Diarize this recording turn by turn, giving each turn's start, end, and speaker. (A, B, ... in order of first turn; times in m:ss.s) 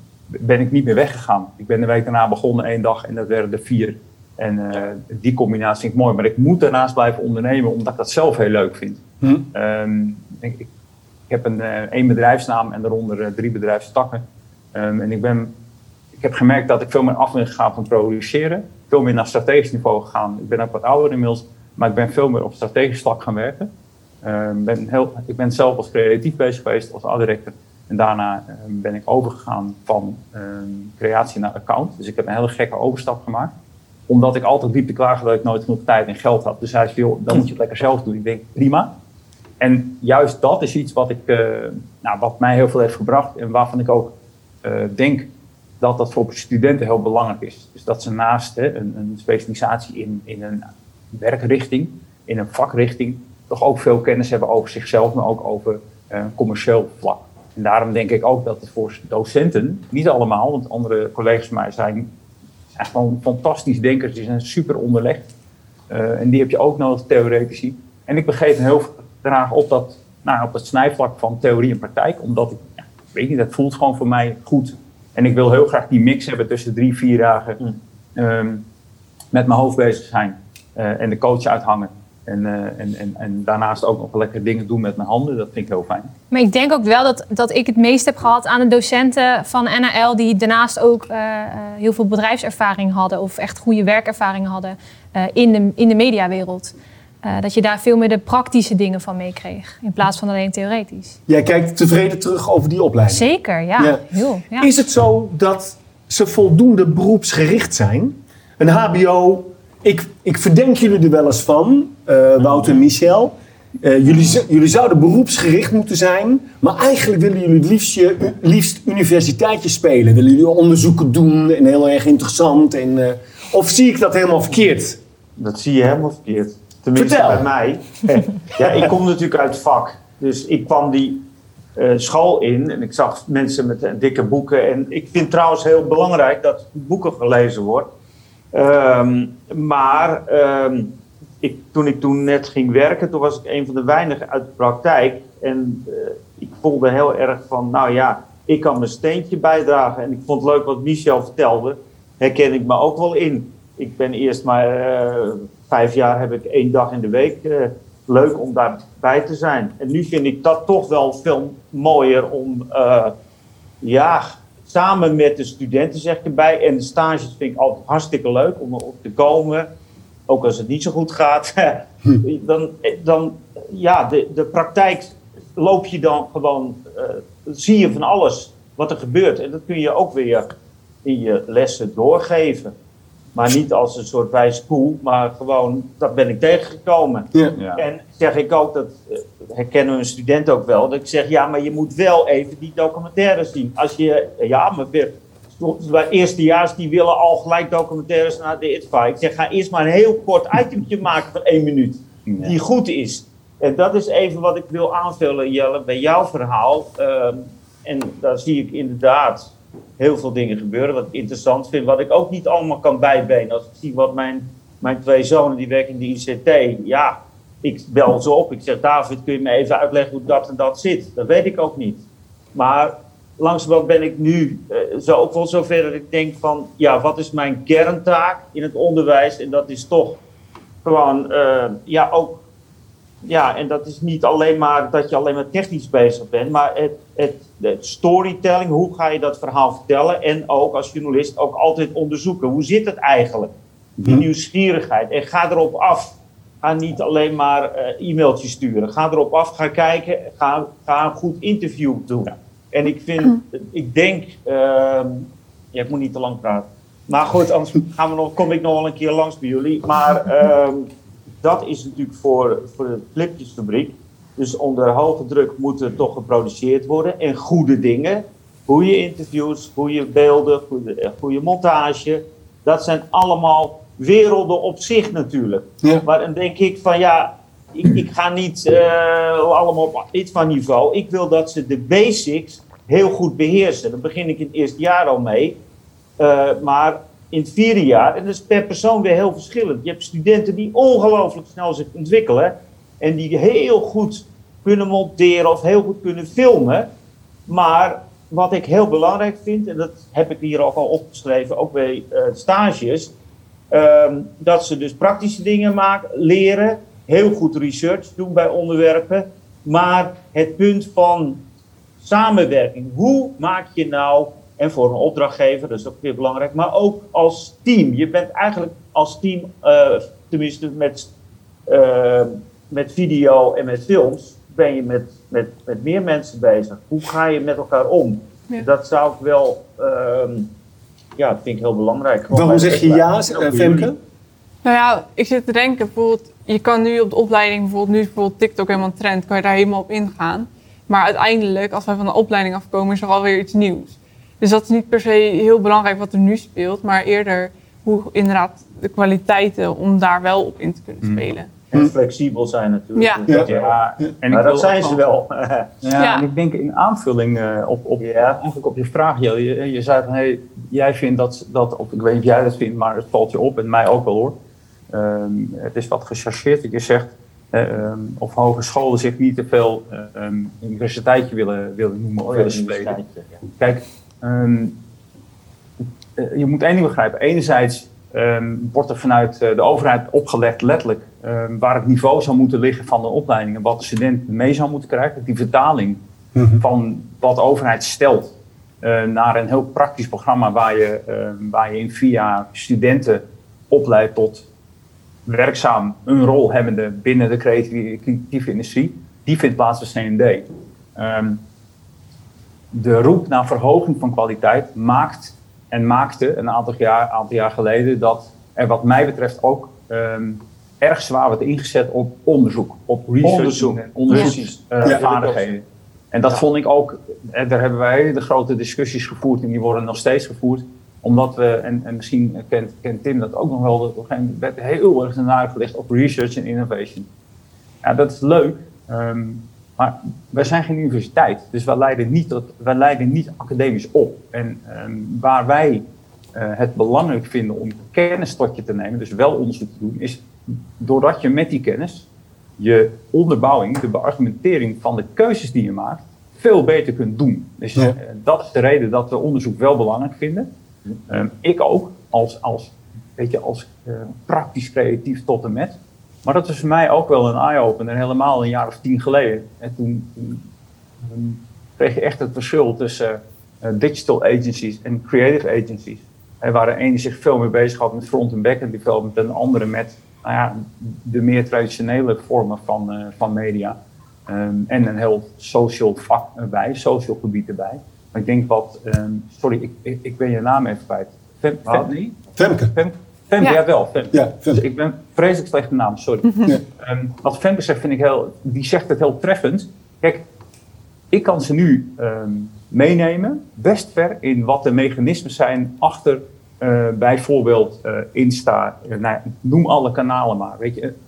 0:00.3-0:09.0 A
0:09.5-0:10.7 A
0:11.3-0:14.2 A
0:14.7-0:15.5 A
0:16.2-0:23.7 A
0:24.2-0:33.5 A
0:34.1-0:38.9 A
0:39.6-0:45.3 A
0:45.8-1:02.1 A
1:02.8-1:05.3 A
1:05.9-1:17.6 A
1:18.2-1:18.6 A
1:19.3-1:26.1 A
1:26.3-1:41.2 B
1:41.3-1:43.2 C
1:43.1-1:44.7 B
1:43.8-2:05.0 C
2:05.4-2:11.2 D
2:06.9-2:07.5 C
2:11.8-2:17.9 D
2:18.5-2:43.1 D
2:43.8-2:49.7 D
2:50.3-3:00.5 D
3:01.0-3:02.7 D
3:03.3-3:50.2 D
3:07.6-3:07.8 A
3:22.3-3:22.5 A
3:50.8-3:52.4 D
3:53.2-4:03.5 D
4:04.0-4:20.9 D
4:21.4-4:45.6 D
4:46.2-4:56.9 D
4:57.5-5:03.1 D
5:03.7-5:11.4 D
5:12.0-5:21.1 D
5:21.7-5:30.5 D
5:31.2-5:33.9 D
5:32.3-5:34.0 C
5:34.6-5:51.5 E
5:51.7-5:53.8 D
5:53.0-5:53.3 E
5:53.4-5:55.0 A
5:54.3-5:55.7 D
5:55.8-6:04.3 A
5:56.0-5:56.2 E
5:58.0-5:58.4 D
6:04.9-6:13.0 A
6:12.2-6:13.3 D
6:13.6-6:14.7 A
6:16.2-6:26.0 A
6:26.3-6:26.6 C
6:26.6-6:34.4 A
6:35.2-6:41.4 A
6:42.7-7:07.1 A
6:53.2-6:55.5 D
7:07.8-7:15.8 A
7:16.3-7:22.0 A
7:22.6-7:30.5 A
7:31.1-7:40.4 A
7:41.0-7:53.8 A
7:54.3-8:10.2 A
8:02.4-8:02.7 C
8:04.1-8:04.6 C
8:11.1-8:20.9 A